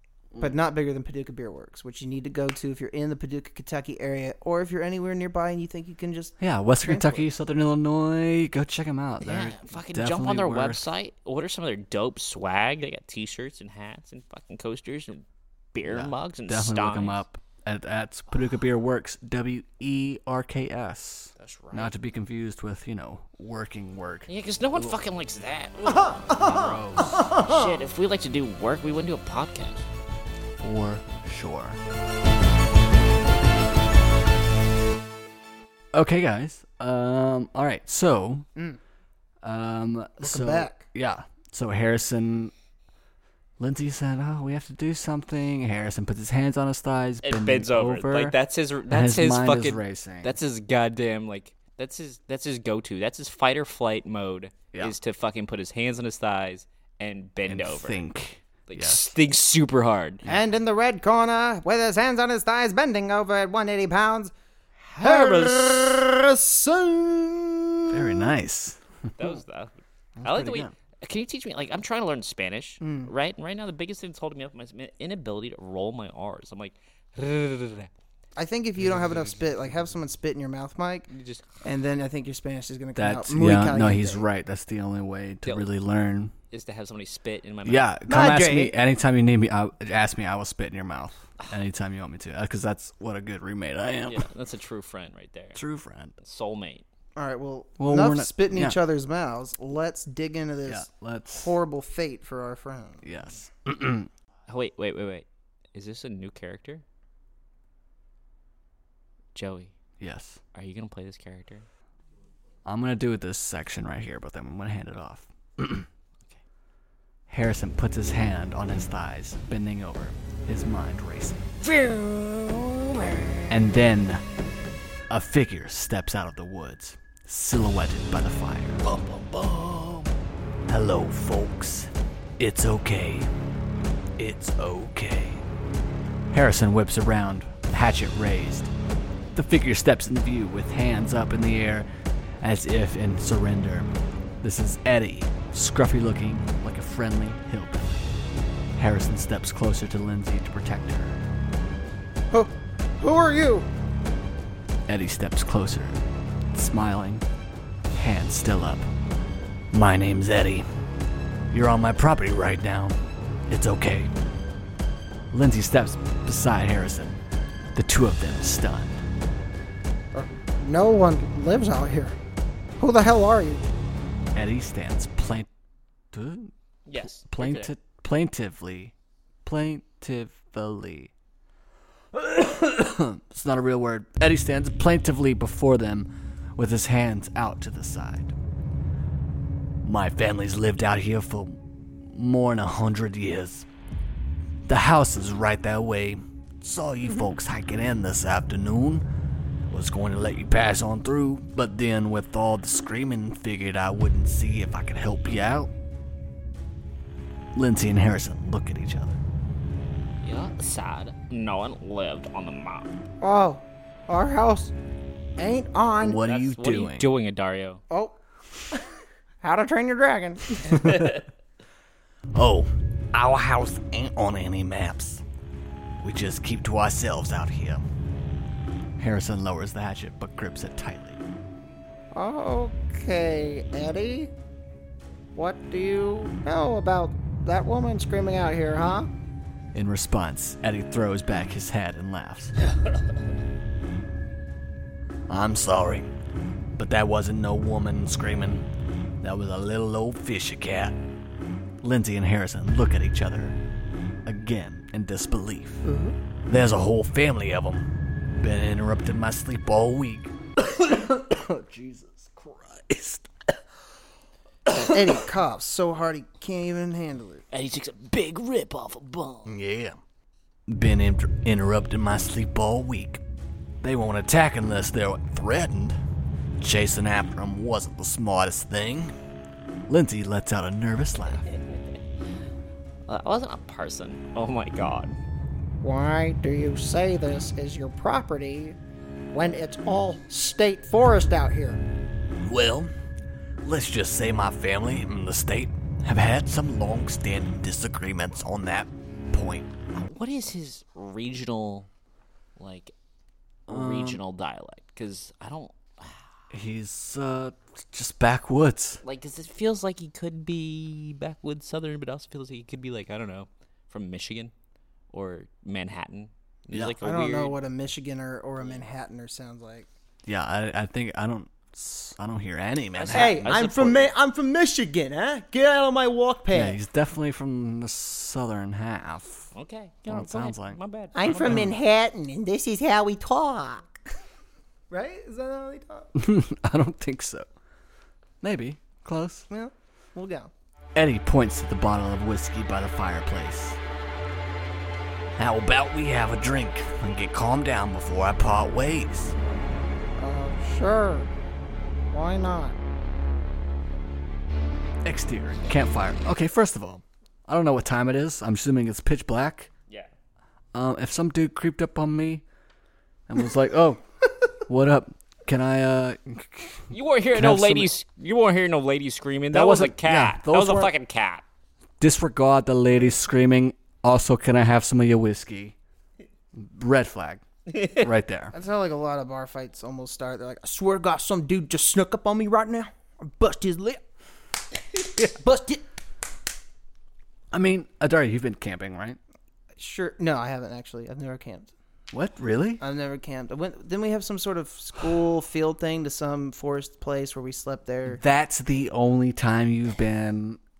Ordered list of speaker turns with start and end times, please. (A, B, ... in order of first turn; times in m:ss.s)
0:00.4-0:07.3 A
0:06.4-0:10.8 B
0:09.2-0:17.2 C
0:15.9-0:25.0 B
0:21.4-0:21.9 C
0:24.3-0:29.9 C
0:26.1-0:27.8 A
0:26.3-0:27.3 B
0:30.6-0:31.8 B
0:35.9-0:38.5 B
0:39.4-0:42.5 B
0:40.2-0:40.9 A
0:43.6-0:48.4 B
0:47.2-0:58.0 C
0:48.9-0:50.4 B
0:57.5-0:59.2 B
0:58.7-1:00.3 C
1:00.3-1:04.3 A
1:04.9-1:06.0 C
1:05.0-1:08.3 A
1:07.9-1:08.8 B
1:09.2-1:17.9 C
1:10.2-1:10.7 B
1:12.8-1:13.1 A
1:18.4-1:21.1 A
1:21.1-1:21.5 C
1:21.6-1:24.3 A
1:23.0-1:26.3 B
1:25.4-1:25.7 C
1:26.5-1:27.9 C
1:27.6-1:34.3 B
1:28.1-1:28.8 A
1:34.1-1:35.6 C
1:35.6-1:36.2 B
1:36.2-1:36.8 C
1:37.2-1:43.1 A
1:37.8-1:38.8 B
1:40.7-1:41.6 B
1:43.0-1:44.1 B
1:44.5-1:46.8 C
1:49.4-1:49.7 C
1:50.0-1:50.4 B
1:50.5-1:51.7 C
1:52.6-1:55.9 B
1:57.3-2:01.4 B
2:01.6-2:03.5 C
2:03.5-2:04.2 B
2:05.1-2:08.8 B
2:08.8-2:10.1 C
2:10.7-2:13.3 B
2:14.2-2:15.4 B
2:16.3-2:18.7 B
2:19.3-2:21.9 B
2:22.4-2:23.9 B
2:24.4-2:28.0 B
2:28.8-2:31.2 B
2:32.3-2:33.7 A
2:34.9-2:36.0 B
2:36.5-2:37.2 B
2:37.9-2:38.9 B
2:39.7-2:40.6 B
2:41.5-2:44.1 B
2:45.3-2:47.2 B
2:47.8-2:49.0 B
2:50.1-2:52.2 A
2:52.8-2:53.6 A
2:54.3-2:55.5 B
2:56.1-2:58.9 B
2:56.9-2:57.7 C
2:59.4-3:01.1 B
3:02.1-3:08.3 B
3:09.8-3:13.7 B
3:14.7-3:19.0 B
3:19.7-3:25.7 B
3:27.6-3:29.2 B
3:30.2-3:33.0 C
3:33.2-3:34.7 A
3:35.4-3:36.2 A
3:36.0-3:37.1 B
3:36.2-3:37.8 C
3:37.9-3:38.2 A
3:39.4-3:40.8 A
3:40.6-3:41.2 B
3:40.7-3:41.2 C
3:42.3-3:45.2 B
3:46.0-3:47.8 B
3:49.0-3:51.2 B
3:52.1-3:54.3 A
3:55.4-3:59.1 A
3:59.7-4:02.5 B
4:05.3-4:06.1 B
4:06.8-4:08.7 B
4:09.2-4:11.0 B
4:11.8-4:13.6 B
4:14.3-4:15.9 B
4:15.8-4:16.2 A
4:16.5-4:17.9 B
4:18.4-4:23.3 B
4:24.7-4:25.2 B
4:24.8-4:27.4 A
4:27.5-4:29.5 C
4:29.4-4:30.0 B
4:30.7-4:33.2 B
4:33.8-4:36.0 B
4:36.6-4:39.1 B
4:39.9-4:41.5 B
4:43.1-4:45.2 C
4:45.8-4:48.8 A
4:49.3-4:51.8 A
4:52.4-4:52.9 B
4:53.6-4:59.7 B
4:59.9-5:01.9 C
5:02.6-5:02.9 C
5:03.7-5:04.2 B
5:03.7-5:06.2 C
5:06.5-5:09.0 B
5:09.0-5:14.5 C
5:15.1-5:17.6 C
5:17.0-5:19.9 A
5:18.6-5:18.8 C
5:20.3-5:23.7 B
5:23.0-5:24.1 C
5:23.1-5:26.8 A
5:26.5-5:29.5 B
5:29.5-5:31.7 C
5:30.1-5:30.8 B
5:31.2-5:34.0 A
5:31.4-5:31.7 B
5:34.9-5:36.1 A
5:36.2-5:37.5 B
5:38.4-5:39.5 B
5:39.5-5:40.5 A
5:41.0-5:43.8 B
5:45.4-5:49.4 B
5:50.2-5:51.3 A
5:52.1-5:52.8 A
5:55.0-5:59.7 B
6:00.7-6:02.4 B
6:03.3-6:04.0 B
6:04.6-6:07.9 B
6:06.9-6:11.4 C
6:09.5-6:10.9 B
6:12.0-6:15.8 B
6:16.6-6:18.5 B
6:17.7-6:18.0 C
6:18.5-6:24.0 A
6:25.0-6:25.8 A
6:27.5-6:29.2 B
6:29.8-6:31.7 A
6:32.1-6:32.8 B
6:32.8-6:38.2 A
6:38.1-6:40.6 B